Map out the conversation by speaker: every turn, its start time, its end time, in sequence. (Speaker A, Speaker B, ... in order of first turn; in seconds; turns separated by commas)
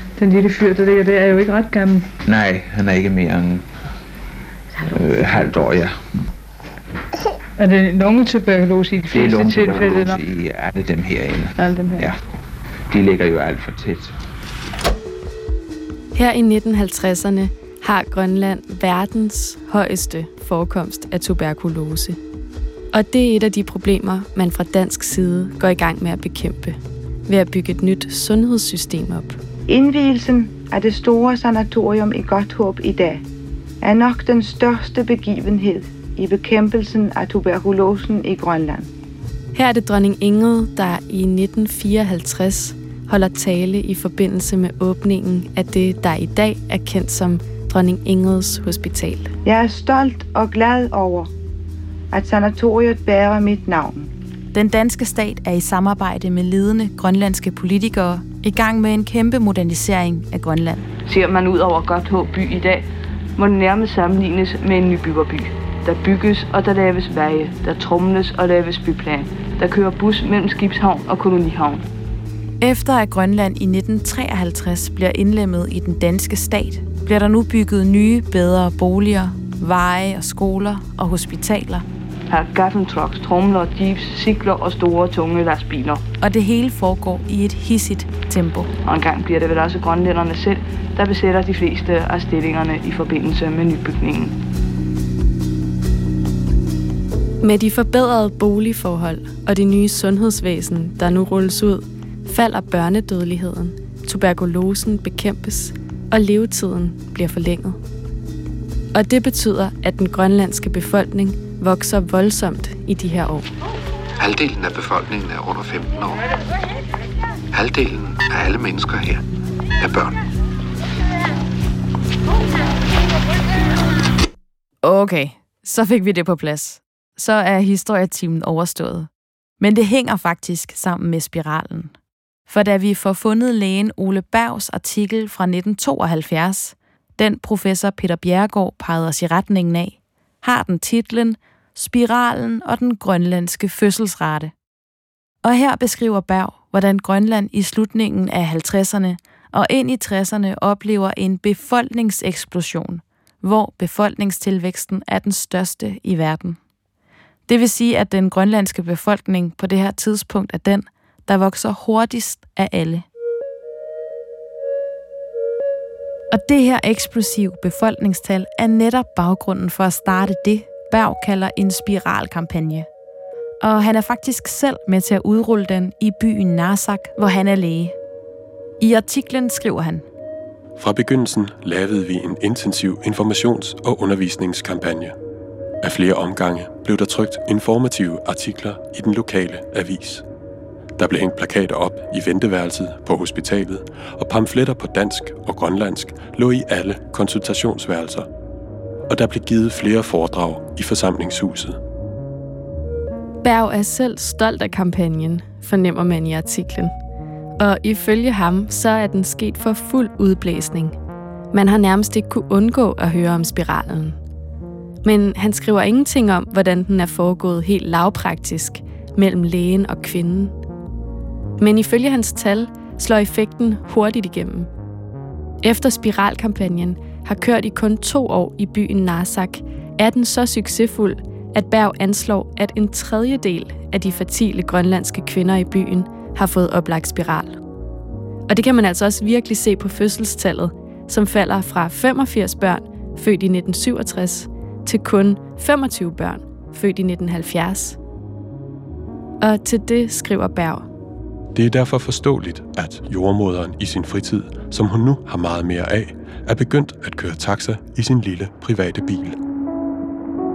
Speaker A: 0.2-2.1, Speaker B: 2.2-3.7, Speaker B: 4.9-6.0, Speaker A: 7.6-10.2, Speaker B: 9.1-12.2, Speaker A: 11.6-12.1, Speaker B: 12.9-14.2, Speaker C: 16.1-22.2, Speaker C: 22.9-29.4, Speaker D: 29.7-33.2, Speaker D: 33.8-38.9, Speaker C: 39.5-49.3, Speaker D: 49.5-51.3, Speaker D: 52.1-54.1, Speaker E: 54.5-60.9, Speaker F: 61.0-71.9, Speaker E: 72.6-81.8, Speaker F: 82.3-86.0, Speaker E: 86.2-88.7, Speaker F: 88.8-94.3, Speaker C: 97.4-107.8, Speaker C: 108.9-113.5, Speaker G: 114.3-116.1, Speaker G: 117.6-119.1, Speaker E: 124.8-131.9, Speaker E: 132.5-144.5, Speaker E: 145.4-156.6, Speaker E: 157.5-163.0, Speaker E: 166.3-172.9, Speaker E: 173.6-177.9, Speaker E: 178.8-180.1, Speaker H: 180.8-185.1, Speaker H: 185.8-190.2, Speaker H: 191.0-198.2, Speaker H: 199.1-201.8, Speaker C: 203.4-206.9, Speaker C: 207.6-211.0, Speaker C: 211.5-214.2, Speaker C: 215.0-220.5, Speaker C: 221.6-224.7, Speaker C: 225.6-237.6, Speaker C: 238.5-248.0, Speaker C: 249.4-250.8, Speaker H: 251.5-259.4